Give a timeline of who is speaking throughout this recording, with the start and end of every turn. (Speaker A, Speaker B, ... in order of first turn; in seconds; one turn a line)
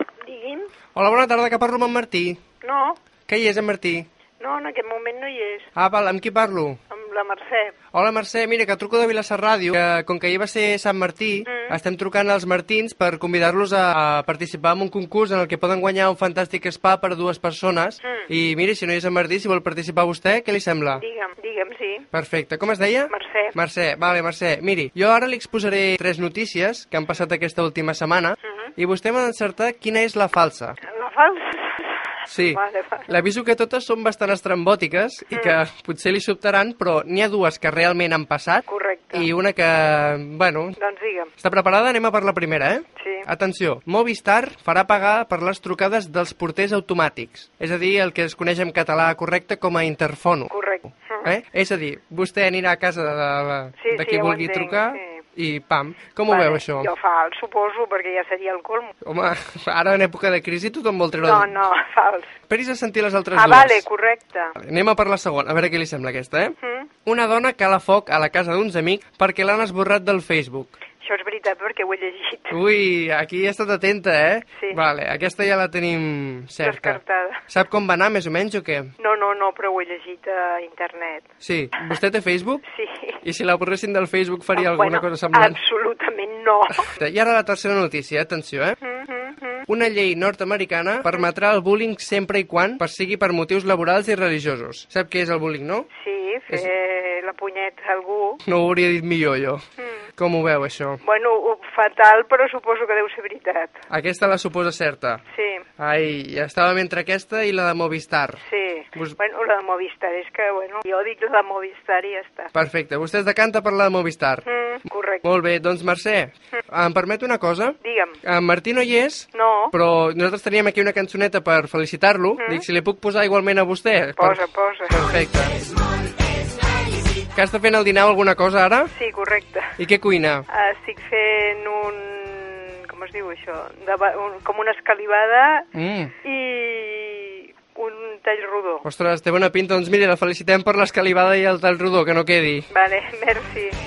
Speaker A: 0.2-0.7
Speaker B: 0.9-2.4
Speaker A: 2.6-3.0
Speaker B: 3.3-4.1
Speaker A: 4.4-5.7
Speaker B: 5.8-6.8
Speaker A: 6.9-7.8
Speaker B: 7.9-21.0
Speaker A: 11.5-11.8
Speaker A: 20.9-22.1
Speaker B: 22.1-30.8
Speaker A: 23.1-23.6
Speaker A: 28.4-28.7
Speaker A: 30.8-33.1
Speaker B: 32.3-40.8
Speaker A: 35.3-35.6
Speaker A: 38.7-39.3
Speaker A: 40.8-41.3
Speaker B: 41.4-50.5
Speaker A: 43.0-43.3
Speaker A: 50.5-51.3
Speaker B: 51.2-56.9
Speaker A: 53.8-55.2
Speaker A: 56.3-59.0
Speaker B: 59.0-61.6
Speaker A: 61.2-62.3
Speaker B: 62.5-63.9
Speaker A: 63.3-64.6
Speaker B: 64.6-70.7
Speaker A: 66.6-66.9
Speaker A: 71.0-72.6
Speaker B: 72.5-78.9
Speaker A: 76.6-77.4
Speaker A: 79.0-81.3
Speaker B: 81.4-82.6
Speaker A: 82.7-83.2
Speaker B: 83.2-85.6
Speaker A: 84.5-86.9
Speaker B: 86.8-88.8
Speaker A: 88.8-89.7
Speaker B: 89.7-95.9
Speaker A: 95.9-98.4
Speaker B: 98.5-99.6
Speaker A: 99.8-100.0
Speaker B: 100.2-101.0
Speaker A: 101.0-103.8
Speaker B: 103.9-105.2
Speaker A: 105.3-105.7
Speaker B: 105.8-108.4
Speaker A: 108.4-112.5
Speaker B: 112.5-114.5
Speaker A: 114.5-115.2
Speaker B: 115.2-125.7
Speaker A: 117.8-118.2
Speaker A: 119.3-119.7
Speaker A: 122.4-122.6
Speaker A: 124.2-125.0
Speaker B: 127.3-128.9
Speaker A: 128.9-129.8
Speaker B: 129.8-130.5
Speaker A: 130.5-135.7
Speaker B: 135.7-136.1
Speaker A: 136.2-138.8
Speaker B: 138.8-142.7
Speaker A: 142.7-143.8